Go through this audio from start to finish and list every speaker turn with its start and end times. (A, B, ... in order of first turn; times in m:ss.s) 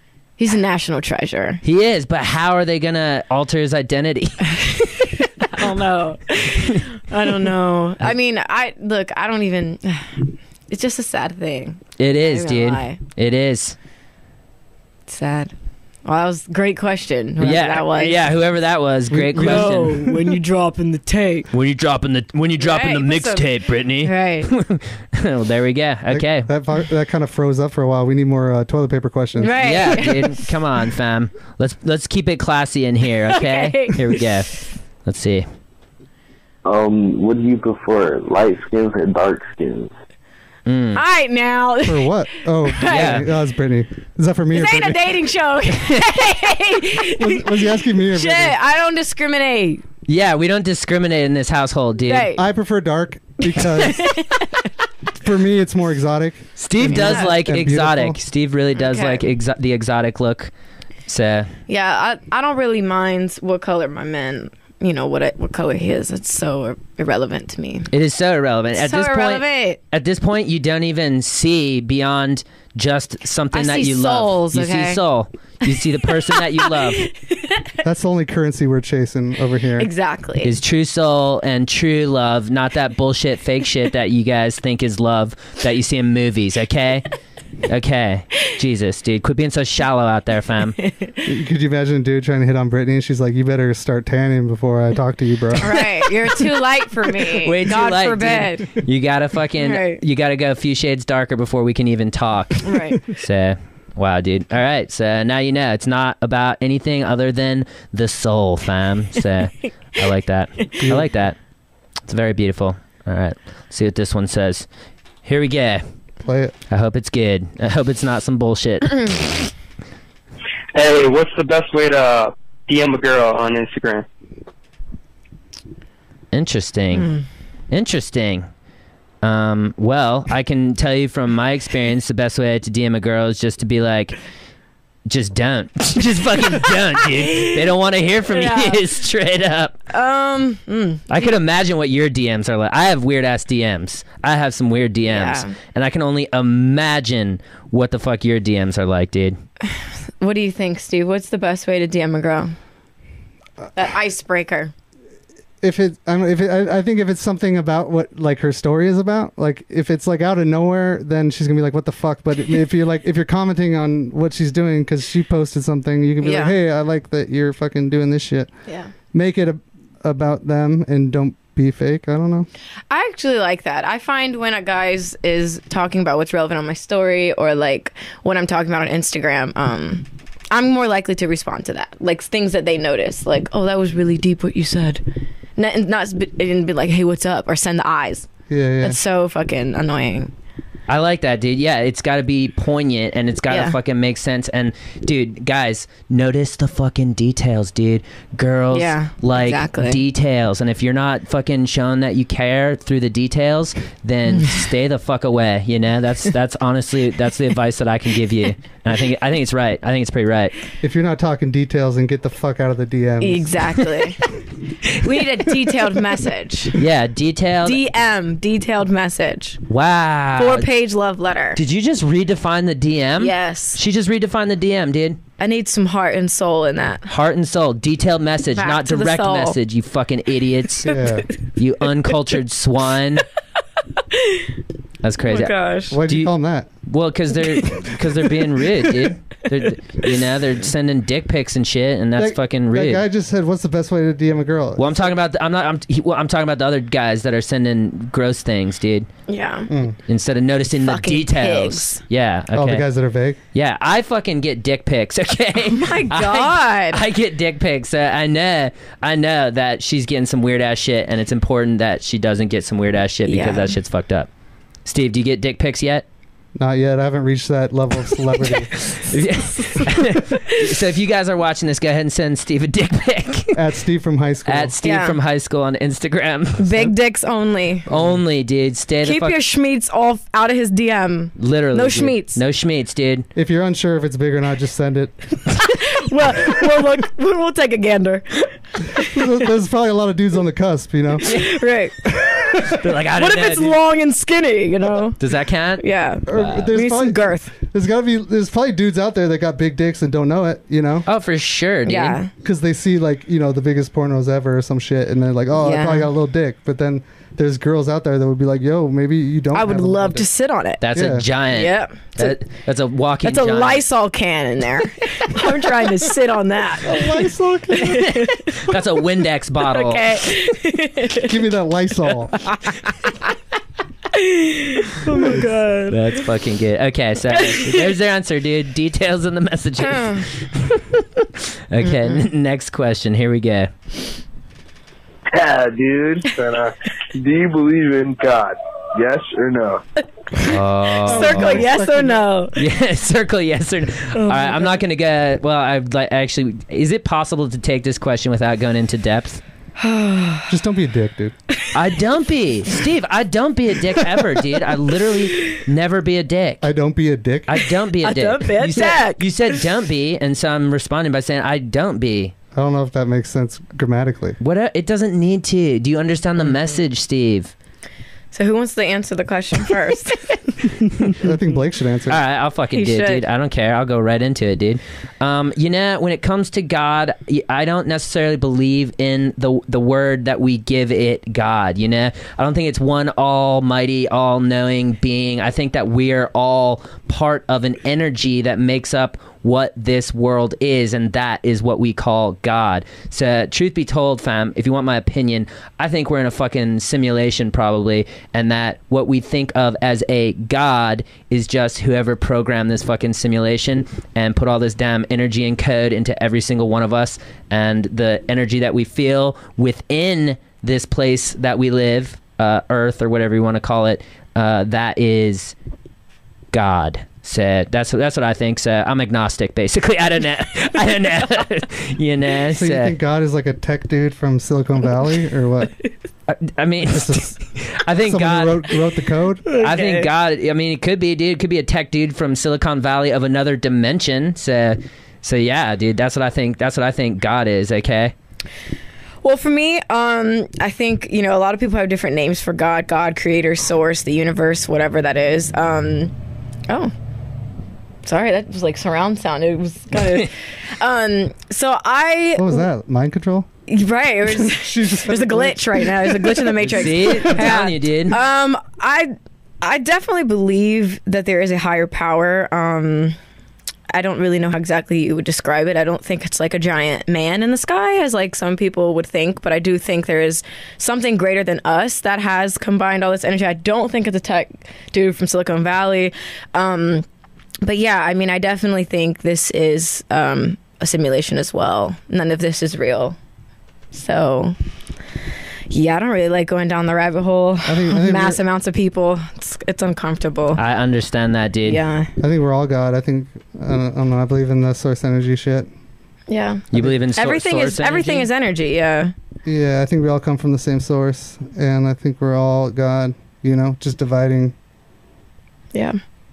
0:00.4-0:01.6 A
0:01.6-0:04.5 B
0:04.5-0:13.0 A
0:12.0-0:13.8 B
0:15.1-0:15.5 A
0:16.0-0:18.3 A
0:17.4-0:20.0 B
0:19.1-0:20.2 C
0:19.4-0:21.5 A
0:21.5-0:26.5 B
0:22.6-0:24.5 A
0:26.1-0:29.6 C
0:29.4-0:30.5 A
0:29.6-0:34.5 B
0:33.3-0:34.3 A
0:35.0-0:35.4 B
0:36.6-0:39.9 D
0:40.6-0:41.0 B
0:40.9-0:43.2 A
0:41.8-0:45.0 C
0:42.8-0:43.2 B
0:44.5-0:49.8 A
0:47.0-0:48.6 C
0:50.1-0:52.3 B
0:52.0-0:52.4 A
0:52.4-0:54.2 C
0:53.7-0:54.6 A
0:55.2-0:58.2 C
0:56.6-1:00.5 B
0:56.8-0:57.3 A
0:58.7-0:59.2 A
1:01.1-1:01.5 B
1:01.7-1:07.9 A
1:07.9-1:17.1 B
1:08.7-1:09.8 A
1:13.5-1:15.0 A
1:16.3-1:17.7 A
1:17.8-1:19.9 C
1:19.8-1:20.5 A
1:20.4-1:27.0 B
1:27.7-1:30.8 B
1:30.8-1:31.2 A
1:31.2-1:35.7 C
1:35.6-1:38.8 A
1:37.3-1:51.4 B
1:39.6-1:40.0 A
1:42.6-1:43.0 A
1:50.8-1:51.1 C
1:52.1-1:54.7 B
1:55.2-1:55.8 B
1:56.2-1:56.6 C
1:56.7-1:59.1 B
2:00.7-2:04.0 E
2:06.3-2:07.1 B
2:07.7-2:08.5 B
2:09.2-2:14.2 B
2:15.1-2:19.8 B
2:17.1-2:17.7 A
2:18.3-2:18.8 A
2:19.9-2:21.3 A
2:21.1-2:29.4 B
2:25.1-2:25.5 A
2:29.6-2:32.5 A
2:33.7-2:34.7 A
2:35.6-2:48.5 C
2:46.2-2:46.5 A
2:48.7-2:48.9 A
2:49.1-2:52.5 C
2:52.9-3:05.0 A
3:05.6-3:08.3 A
3:08.5-3:09.0 C
3:08.8-3:10.3 A
3:10.9-3:30.5 B
3:13.5-3:13.8 A
3:18.7-3:20.0 A
3:30.8-3:33.6 C
3:33.2-3:36.8 A
3:36.8-3:37.8 B
3:37.6-3:39.6 A
3:39.7-3:40.7 B
3:40.4-3:41.6 A
3:41.5-3:45.2 B
3:43.2-3:43.8 A
3:45.4-3:47.1 A
3:47.1-3:50.9 B
3:48.5-3:49.6 A
3:50.8-3:51.3 C
3:51.6-3:53.2 B
3:54.1-3:54.5 A
3:55.0-3:56.3 B
3:55.3-3:56.0 A
3:55.9-3:56.7 C
3:56.8-4:03.0 B
4:02.2-4:05.1 C
4:04.8-4:09.1 B
4:09.3-4:09.7 A
4:09.7-4:10.0 C
4:10.1-4:12.8 B
4:10.8-4:12.0 A
4:12.5-4:13.4 C
4:13.5-4:24.3 B
4:15.7-4:17.0 A
4:23.3-4:23.8 A
4:24.8-4:26.0 B
4:26.6-4:28.7 C
4:28.8-4:33.6 B
4:33.5-4:34.7 C
4:34.4-4:36.9 B
4:34.8-4:35.2 A
4:36.6-4:37.8 A
4:37.9-4:39.4 B
4:37.9-4:38.2 C
4:39.0-4:42.4 A
4:41.4-4:43.3 B
4:43.3-4:45.2 C
4:45.6-4:49.3 A
4:49.0-4:51.3 C
4:51.2-4:51.5 B
4:51.3-4:52.6 A
4:52.6-4:53.8 B
4:53.1-4:55.2 A
4:55.2-4:56.7 B
4:55.8-4:57.5 A
4:56.3-5:01.0 C
5:01.1-5:02.2 B
5:01.9-5:02.3 A
5:02.4-5:10.3 C
5:05.6-5:06.1 A
5:09.5-5:10.8 A
5:10.8-5:13.8 B
5:10.9-5:11.3 C
5:11.5-5:12.4 A
5:13.2-5:18.7 A
5:16.8-5:18.2 C
5:18.6-5:20.0 B
5:19.6-5:21.4 A
5:21.2-5:22.4 C
5:22.4-5:23.1 A
5:24.1-5:26.2 A
5:25.1-5:25.4 C
5:25.9-5:30.8 B
5:27.3-5:27.9 A
5:29.8-5:30.3 A
5:31.7-5:33.7 B
5:31.8-5:32.2 A
5:35.3-5:39.8 D
5:40.4-5:41.6 B
5:41.0-5:42.2 C
5:41.0-5:42.6 A
5:42.6-5:49.4 B
5:44.1-5:44.8 A
5:49.8-5:50.5 A
5:50.5-5:51.3 C
5:51.7-5:56.6 B
5:56.6-5:57.7 C
5:57.5-6:02.3 B
5:58.0-5:59.6 A
6:02.5-6:04.4 C
6:04.4-6:07.5 B
6:08.3-6:10.6 A
6:11.1-6:12.2 C
6:12.1-6:55.5 B
6:12.7-6:13.2 A
6:56.5-7:02.9 B
7:02.5-7:05.7 C
7:06.3-7:08.7 B
7:06.8-7:07.4 C
7:08.0-7:09.4 C
7:09.4-7:10.1 A
7:09.5-7:18.1 B
7:19.2-7:26.1 A
7:28.0-7:32.6 A
7:32.4-7:33.5 C
7:33.7-7:43.2 A
7:34.3-7:37.2 C
7:36.6-7:38.2 B
7:43.9-7:57.0 A
7:57.6-8:03.2 A
8:03.9-8:04.6 A
8:05.7-8:10.6 A
8:07.6-8:08.4 C
8:10.6-8:11.8 B
8:11.6-8:12.1 A
8:12.2-8:15.7 C
8:16.3-8:19.1 A
8:16.7-8:18.3 B
8:19.4-8:24.5 C
8:25.7-8:26.0 A